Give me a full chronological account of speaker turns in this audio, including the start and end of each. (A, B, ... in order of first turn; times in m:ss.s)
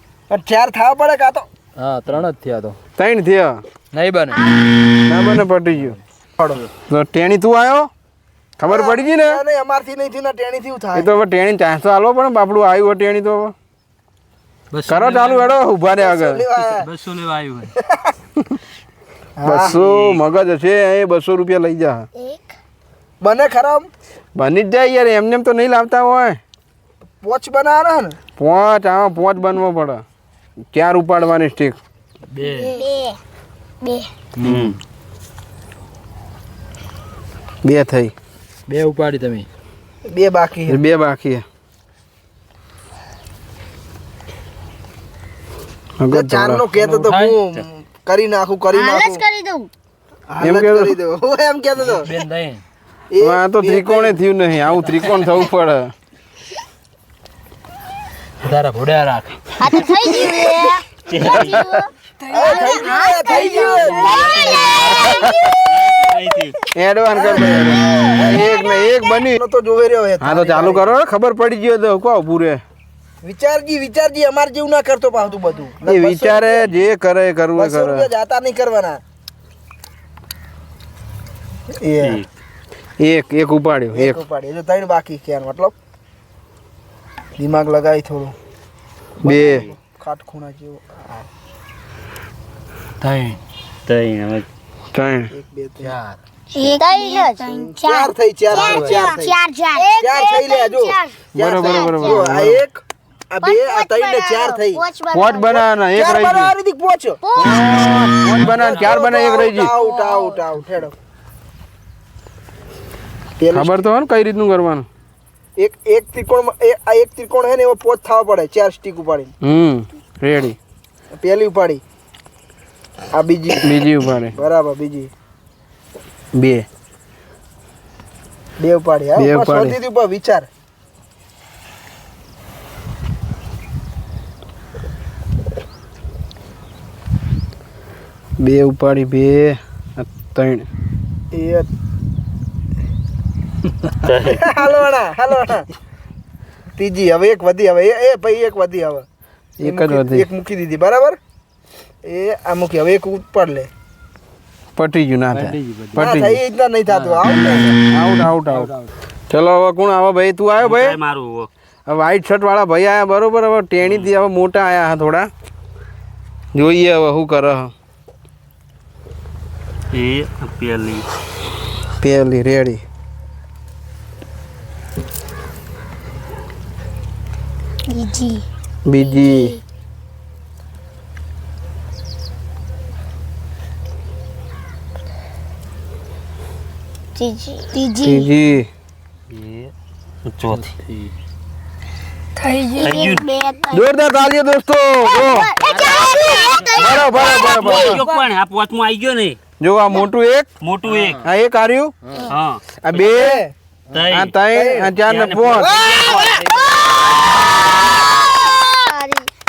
0:00.3-0:01.5 A
0:01.8-0:02.8 B
0:03.0-0:03.6 C
0:03.9-0:04.4 B
0:04.4-0:04.6 D
0:05.1-0:06.0 C
0:06.8-0:07.9 C
0:08.6-0:09.4 C
0:08.6-0:11.1 A
0:10.9-0:13.5 C
0:14.7-0:15.5 B
0:14.9-0:16.5 C
0:16.0-0:16.9 A
0:16.7-0:17.7 B
0:19.4-0:19.8 A
0:19.4-0:22.0 C
0:23.2-0:23.9 A
0:24.4-0:26.4 C
0:27.2-0:28.2 A
0:28.4-0:30.0 C
0:30.7-0:31.8 C
0:32.3-0:32.8 B
0:32.6-0:33.2 D
0:33.8-0:34.1 D
0:34.4-0:34.7 B
0:34.4-0:34.8 E
0:37.6-0:38.1 C
0:38.7-0:39.5 B
0:40.0-0:40.8 A
0:40.7-0:41.4 C
0:46.0-0:46.6 C
0:46.1-0:49.2 A
0:46.8-0:47.4 B
0:48.7-0:49.7 D
0:50.3-0:52.1 A
0:50.4-0:50.9 C
0:51.8-0:52.6 B
0:53.1-0:54.2 A
0:53.2-0:55.9 C
0:58.4-0:59.4 B
0:59.6-1:05.4 D
1:00.1-1:00.5 A
1:01.1-1:01.7 E
1:01.3-1:01.7 C
1:02.3-1:04.2 A
1:03.7-1:06.6 E
1:06.7-1:09.4 C
1:07.1-1:08.5 A
1:07.5-1:09.2 D
1:09.3-1:11.0 A
1:10.2-1:12.6 C
1:13.2-1:16.7 A
1:15.8-1:18.1 C
1:17.5-1:19.0 A
1:21.7-1:22.2 A
1:22.0-1:22.2 E
1:23.0-1:24.2 C
1:23.9-1:25.7 A
1:27.4-1:28.3 A
1:29.2-1:31.3 A
1:29.2-1:29.7 C
1:29.4-1:29.7 E
1:33.0-1:33.4 B
1:33.8-1:34.4 E
1:34.9-1:35.3 C
1:35.3-1:36.0 A
1:35.8-1:36.2 B
1:36.5-1:42.2 D
1:37.4-1:39.4 A
1:38.6-1:39.2 B
1:40.0-1:44.8 A
1:41.3-1:42.6 C
1:43.4-1:45.6 D
1:45.1-1:46.5 C
1:45.9-1:47.2 A
1:47.2-1:48.5 D
1:47.4-1:49.7 C
1:48.2-1:48.9 B
1:48.5-1:50.9 A
1:49.7-1:50.4 D
1:53.4-1:53.8 A
1:53.5-1:54.9 C
1:55.6-1:59.3 A
1:59.4-2:00.6 C
2:01.1-2:01.8 A
2:03.1-2:03.8 A
2:03.6-2:04.4 C
2:04.3-2:05.1 A
2:06.4-2:06.6 C
2:08.6-2:10.5 A
2:09.2-2:09.8 C
2:18.4-2:20.7 C
2:21.3-2:21.7 A
2:24.0-2:24.4 E
2:24.2-2:25.7 A
2:26.8-2:29.0 A
2:29.6-2:30.3 C
2:29.6-2:31.2 A
2:32.0-2:33.7 A
2:34.8-2:36.4 C
2:35.3-2:36.1 B
2:36.0-2:37.8 A
2:36.9-2:37.4 B
2:37.2-2:38.7 C
2:38.5-2:38.9 B
2:39.3-2:41.0 C
2:40.6-2:41.5 E
2:41.9-2:45.3 C
2:43.8-2:44.1 E
2:46.5-2:47.7 C
2:49.9-2:51.0 E
2:52.0-2:52.8 C
2:57.9-2:58.4 D
2:58.8-2:59.6 C
2:59.2-2:59.5 D
3:07.1-3:08.2 D
3:08.0-3:08.7 C
3:09.3-3:09.7 E
3:10.2-3:10.7 E
3:10.5-3:11.1 B
3:12.4-3:13.8 D
3:12.8-3:13.3 E
3:13.7-3:15.5 C
3:15.3-3:17.5 D
3:15.6-3:16.0 B
3:16.7-3:18.0 C
3:17.6-3:19.4 E
3:19.6-3:20.5 C
3:20.6-3:21.2 E
3:20.9-3:21.2 B
3:21.2-3:21.9 C
3:22.3-3:23.2 E
3:22.8-3:23.4 C
3:23.0-3:23.5 A
3:23.9-3:24.3 E
3:24.1-3:25.8 C
3:24.5-3:24.9 A
3:25.0-3:26.6 E
3:25.6-3:26.3 A
3:26.1-3:26.6 D
3:28.2-3:29.2 D